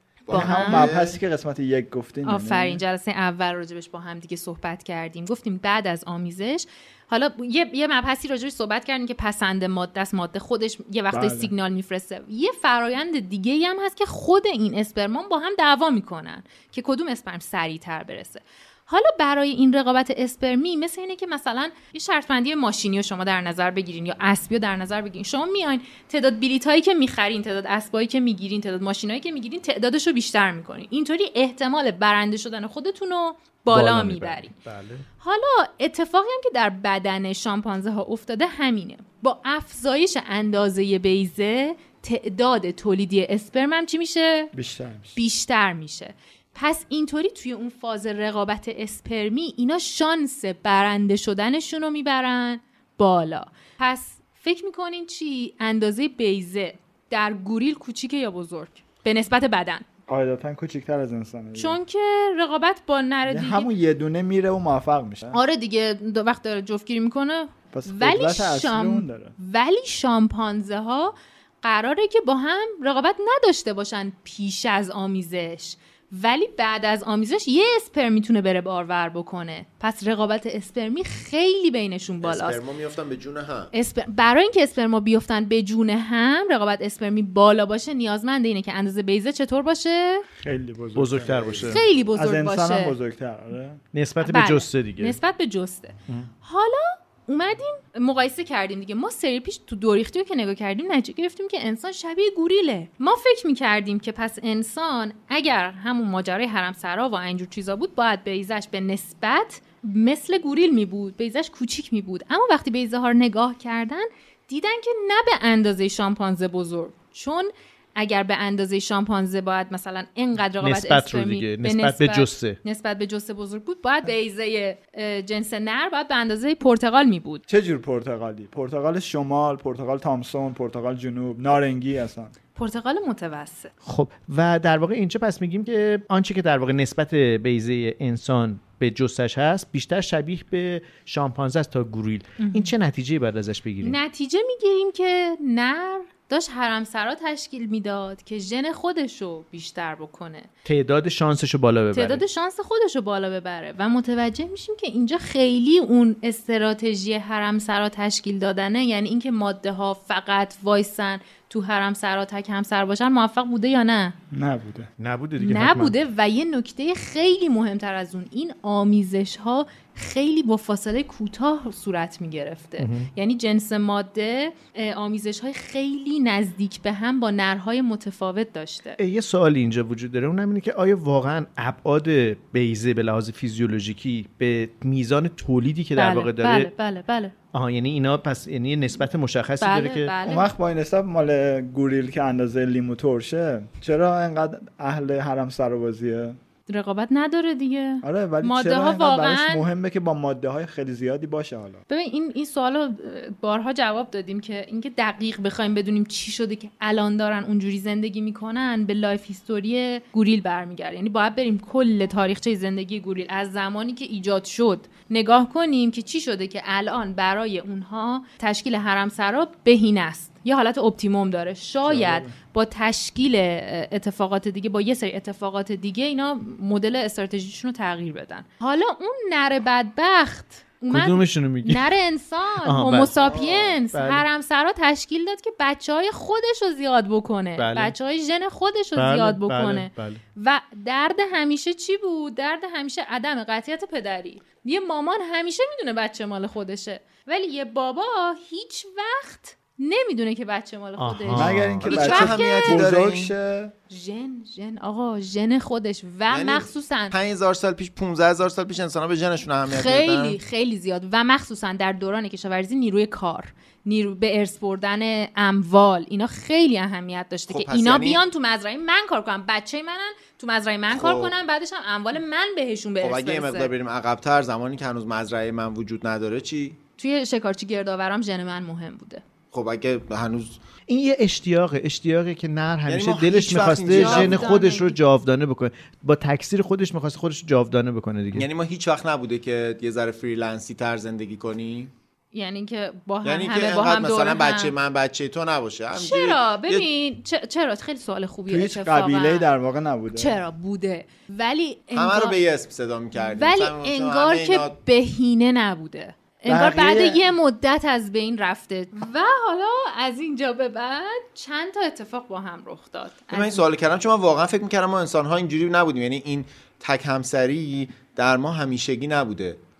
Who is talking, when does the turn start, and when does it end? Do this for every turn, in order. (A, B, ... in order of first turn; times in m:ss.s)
0:00.2-0:01.2 A
0:00.3-0:02.8 B
0:00.3-0:00.9 C
0:02.2-0:34.5 C
0:11.1-0:11.5 B
0:33.7-0:35.0 D
0:35.2-0:44.5 C
0:44.5-0:45.2 B
0:45.1-0:59.8 C
1:00.1-1:01.8 B
1:01.6-1:03.7 C
1:03.3-1:05.4 B
1:05.3-1:22.6 C
1:07.7-1:09.3 B
1:22.2-1:23.7 A
1:23.7-1:30.2 C
1:30.4-1:33.8 B
1:30.9-1:31.8 D
1:31.2-1:31.8 A
1:31.6-1:32.9 C
1:33.9-1:35.2 D
1:34.2-2:07.4 C
2:00.6-2:02.6 D
2:07.5-2:12.3 B
2:12.5-2:13.7 C
2:13.8-2:24.0 D
2:22.4-2:22.7 C
2:23.8-2:30.5 C
2:30.6-2:32.2 D
2:31.9-2:44.2 C
2:44.3-2:44.9 B
2:45.0-2:45.9 D
2:45.4-2:59.0 C
2:52.8-2:53.1 D
2:59.0-3:06.7 D
3:06.0-3:07.3 C
3:07.5-3:10.1 D
3:09.6-3:10.5 C
3:10.2-3:16.4 B
3:16.7-3:19.6 C
3:18.0-3:21.8 B
3:21.9-4:12.8 C
3:41.8-3:42.3 B
3:50.9-3:51.9 D
3:52.6-3:53.1 D
3:53.1-3:53.8 A
3:53.9-3:54.2 D
3:57.6-3:57.9 D
3:59.0-4:00.2 D
4:11.0-4:11.9 D
4:11.3-4:13.7 B
4:11.8-4:13.3 A
4:13.9-4:17.1 C
4:16.3-4:20.4 A
4:19.7-4:33.7 C
4:27.5-4:28.2 A
4:30.9-4:31.3 A
4:33.0-4:36.8 A
4:37.0-4:39.2 C
4:39.5-4:40.6 A
4:40.9-4:48.5 D
4:42.9-4:44.5 A
4:43.8-4:45.0 C
4:48.3-4:51.9 A
4:52.3-4:54.7 C
4:53.2-4:56.8 A
4:55.9-4:59.5 C
4:58.5-5:00.4 B
5:00.1-5:02.4 C
5:01.9-5:04.8 A
5:03.1-5:13.6 C
5:06.5-5:07.2 B
5:13.3-5:19.6 A